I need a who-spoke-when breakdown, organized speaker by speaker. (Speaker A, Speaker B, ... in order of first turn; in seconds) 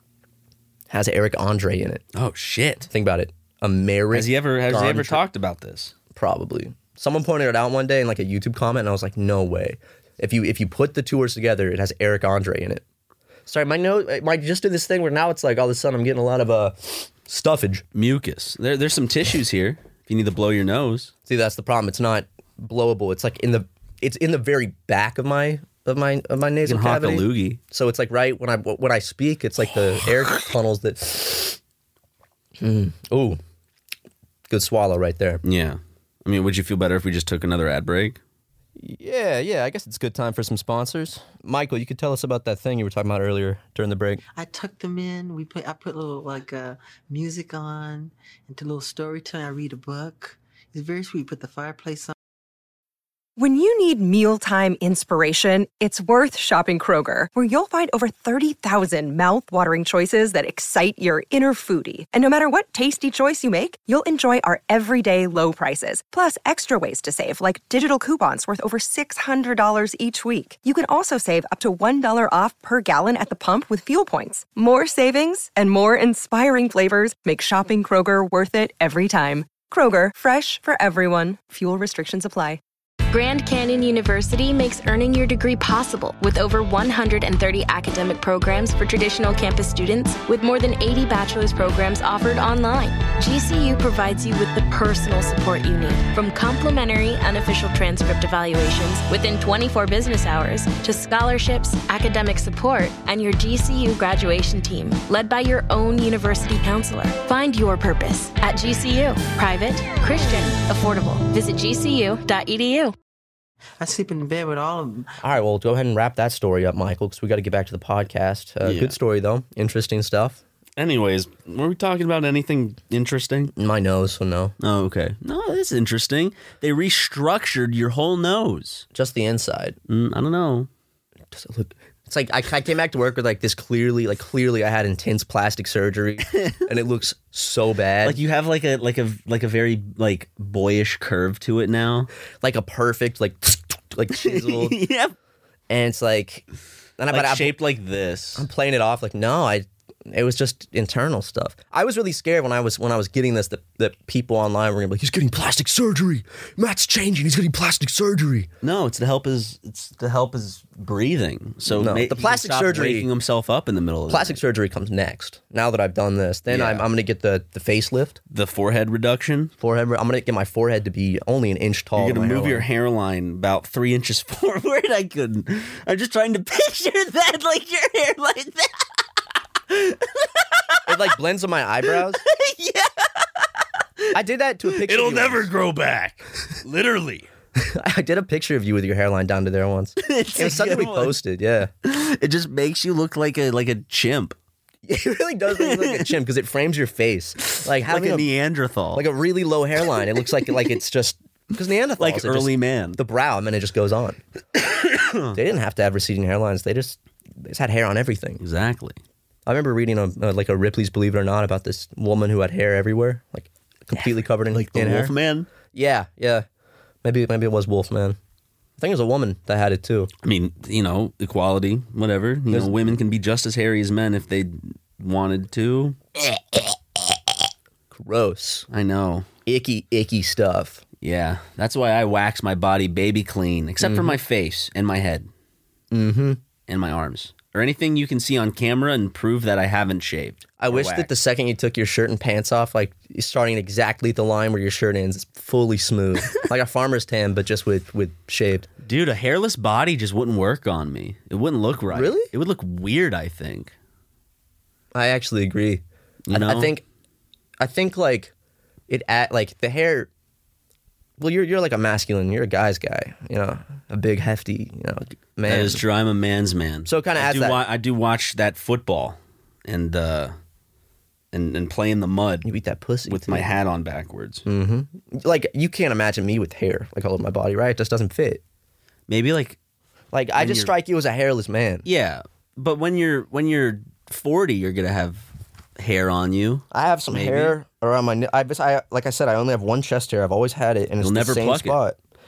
Speaker A: 0.9-2.0, 2.9-5.2, 6.1-12.8, 13.5-17.8, 21.3-31.6, 32.6-33.4, 34.5-35.4, 38.8-44.2, 115.2-120.4, 123.5-124.5, 128.9-129.8, 131.3-138.2, 142.4-144.8, 145.7-146.4, 147.0-147.6, 148.3-158.5, 161.7-163.1, 164.1-168.2, 169.6-172.7, 180.8-182.2, 184.1-185.5, 187.6-191.7, 194.8-198.3, 198.9-204.2, 205.3-208.4, 209.4-215.1, 215.7-216.4, 217.0-218.2, 218.8-220.1, 222.5-223.0, 227.9-228.7, 229.4-230.8, 233.8-234.2, 235.9-236.4, 240.6-248.7, 251.9-252.3, 254.9-256.8, 257.6-258.3, 258.9-260.1, 261.2-265.8, 266.9-267.6, 272.4-273.6, 274.4-278.4, 280.1-281.9, 286.7-292.0
Speaker B: 2.1-2.9, 4.1-5.9, 17.9-21.1, 26.6-27.6, 35.4-38.2, 118.6-118.9, 120.8-123.5, 124.6-128.8, 129.9-130.7, 136.3-136.6, 138.0-142.1, 144.2-145.1, 147.1-148.4, 158.6-164.4, 166.5-166.8, 168.3-169.5, 172.0-178.8, 179.7-181.1, 181.9-183.4, 184.7-187.3, 190.0-191.2, 191.8-194.3, 195.6-196.1, 197.4-199.0, 202.0-203.0, 204.6-205.3, 208.4-209.0, 214.0-215.5, 220.2-226.6, 228.7-229.3, 231.0-235.3, 236.7-241.1, 248.8-253.7, 256.3-256.7, 265.4-270.3, 271.3-272.4, 273.1-274.4, 279.1-279.6, 280.4-280.7, 281.9-285.2, 285.8-287.6, 291.0-291.8
Speaker C: 44.4-52.1, 113.8-115.1
Speaker D: 53.4-82.6
Speaker E: 83.1-112.9